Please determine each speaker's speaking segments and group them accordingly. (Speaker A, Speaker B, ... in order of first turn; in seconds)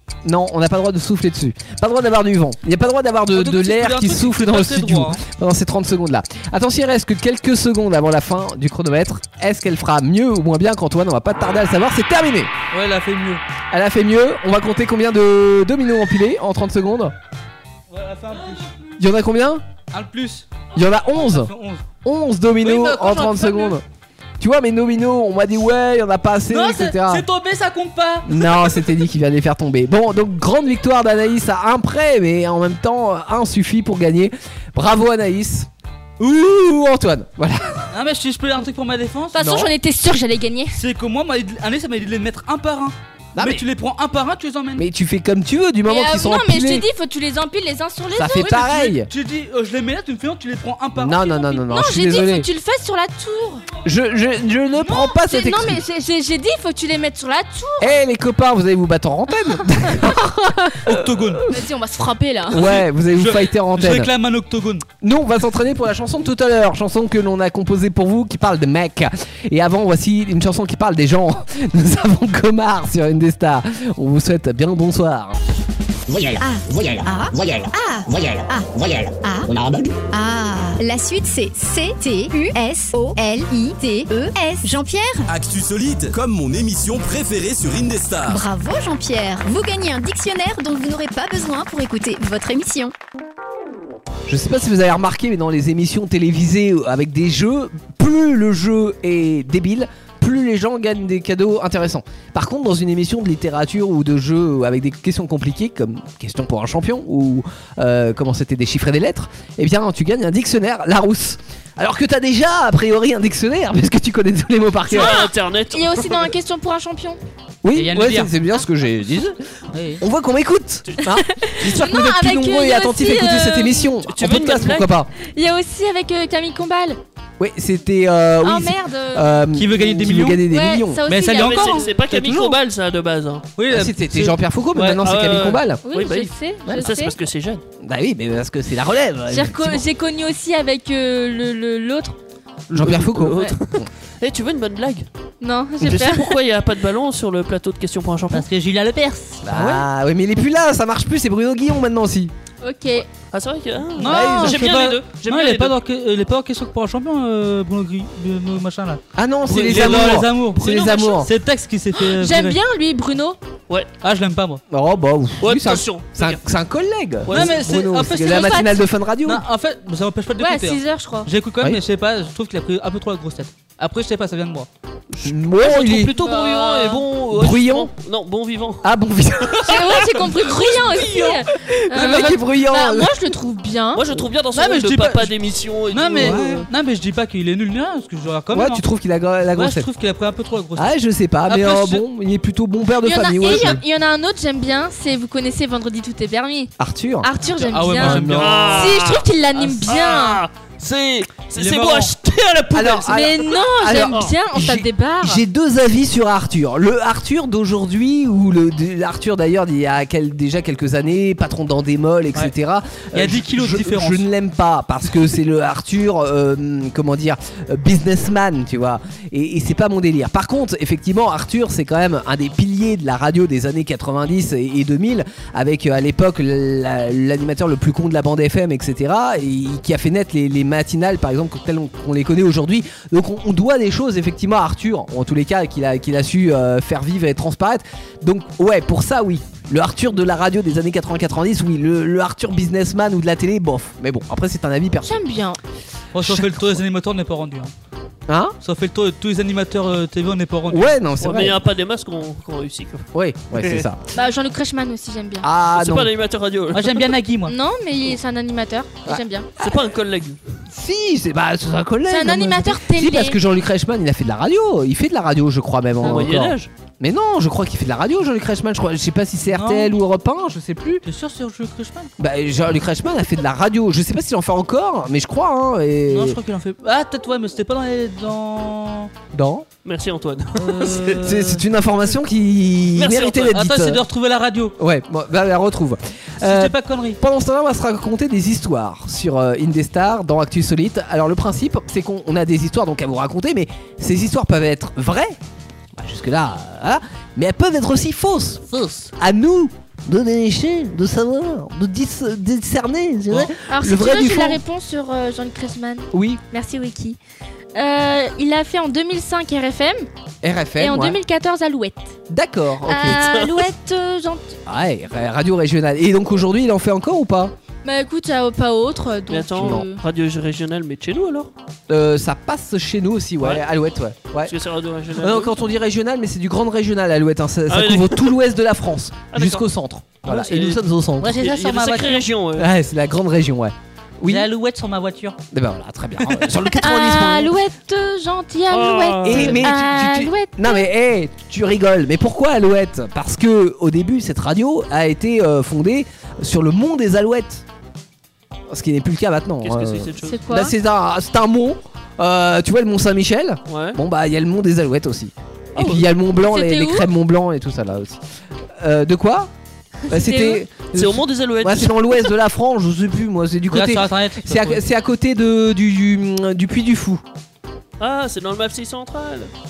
Speaker A: 0.2-12.5, 13.7-17.1, 19.0-19.6, 20.7-21.5, 22.0-23.8, 24.4-27.2, 28.2-35.7, 36.2-37.8, 39.4-39.7, 43.3-43.6, 44.8-46.9, 48.1-49.1, 51.0-52.5, 53.8-55.8, 57.8-61.7, 62.5-64.1, 65.0-75.4, 94.2-115.2, 117.6-119.3, 120.0-125.1, 127.4-131.1, 133.7-135.8, 137.8-139.8, 142.7-143.8, 149.4-152.3, 154.1-154.7, 159.1-161.3, 164.7-169.4, 175.2-176.1, 177.3-177.9, 178.8-183.2, 186.2-186.7, 188.5-189.9, 190.8-193.8, 196.8-197.3, 198.0-198.6, 202.7-245.2, 246.2-246.8, 248.3-248.6, 250.7-251.6, 253.1-254.0, 255.4-256.1, 259.1-259.8, 260.7-271.0, 272.2-276.4, 279.3-279.7, 281.1-284.0, 284.8-295.4, 296.0-298.6, 299.2-304.6, 306.1-306.4, 310.4-311.2, 312.3-313.4, 314.7-317.5, 319.6-319.9, 321.9-324.5, 325.1-331.3, 332.6-334.5, 335.5-337.5, 339.2-347.6, 348.7-358.2, 358.8-359.5, 360.1-367.2
Speaker B: 3.3-5.2, 12.7-13.4, 17.9-18.7, 19.9-21.9, 22.6-23.8, 26.5-28.5, 37.9-39.4, 40.8-44.9, 48.4-51.6, 60.8-61.5, 62.6-64.8, 117.7-118.3, 119.7-120.0, 129.5-130.5, 131.1-132.6, 133.6-135.1, 148.3-149.8, 153.9-162.6, 164.0-164.6, 167.2-168.7, 169.2-174.7, 175.9-177.0, 184.5-185.3, 185.9-188.8, 189.5-190.9, 191.4-192.0, 193.4-193.8, 197.4-198.9, 201.6-202.1, 213.1-214.3, 246.1-247.7, 248.6-250.9, 256.7-257.5, 269.5-269.9, 271.0-272.1, 276.1-279.1, 280.6-281.6, 283.5-284.7, 286.4-287.2, 298.7-299.1, 331.2-332.3, 334.2-335.4, 336.2-336.6, 363.7-364.8
Speaker C: 39.3-40.8, 45.9-48.7, 51.7-53.6, 54.9-58.0, 61.5-62.8, 114.9-117.2, 121.1-124.0, 125.2-127.0, 128.4-129.5, 130.4-131.9, 135.8-137.1, 139.3-142.2, 143.3-143.5, 145.4-146.3, 152.6-153.1, 160.7-161.2, 161.9-163.4, 168.2-168.8, 170.4-171.3, 179.6-184.2, 193.0-200.4, 203.0-205.4, 245.0-245.6, 254.1-255.5, 257.5-259.5, 262.1-263.4, 303.7-307.2, 307.7-310.1, 310.8-312.1, 312.8-314.6, 317.8-320.0, 336.8-340.8, 350.2-350.7, 356.4-357.1, 360.1-360.6
Speaker D: 76.1-80.0
Speaker E: 76.4-79.5, 80.1-85.3, 88.3-92.9
Speaker F: 85.3-88.4
Speaker G: 114.9-116.3, 124.1-124.9, 131.2-133.5, 135.0-137.6, 142.7-145.1, 145.8-148.4, 153.3-155.7, 165.4-166.4, 175.1-178.8, 179.4-181.4, 181.9-182.4, 183.9-186.7, 198.2-204.3, 251.2-253.8, 255.7-257.1, 259.6-260.4, 266.0-266.7, 279.8-281.2, 282.9-283.6, 313.1-313.5, 319.3-321.5, 324.4-325.5, 327.7-328.3, 329.3-329.6, 330.2-332.7, 338.7-339.8, 349.6-350.4, 353.7-354.0, 355.7-356.0, 360.9-361.9, 368.0-369.5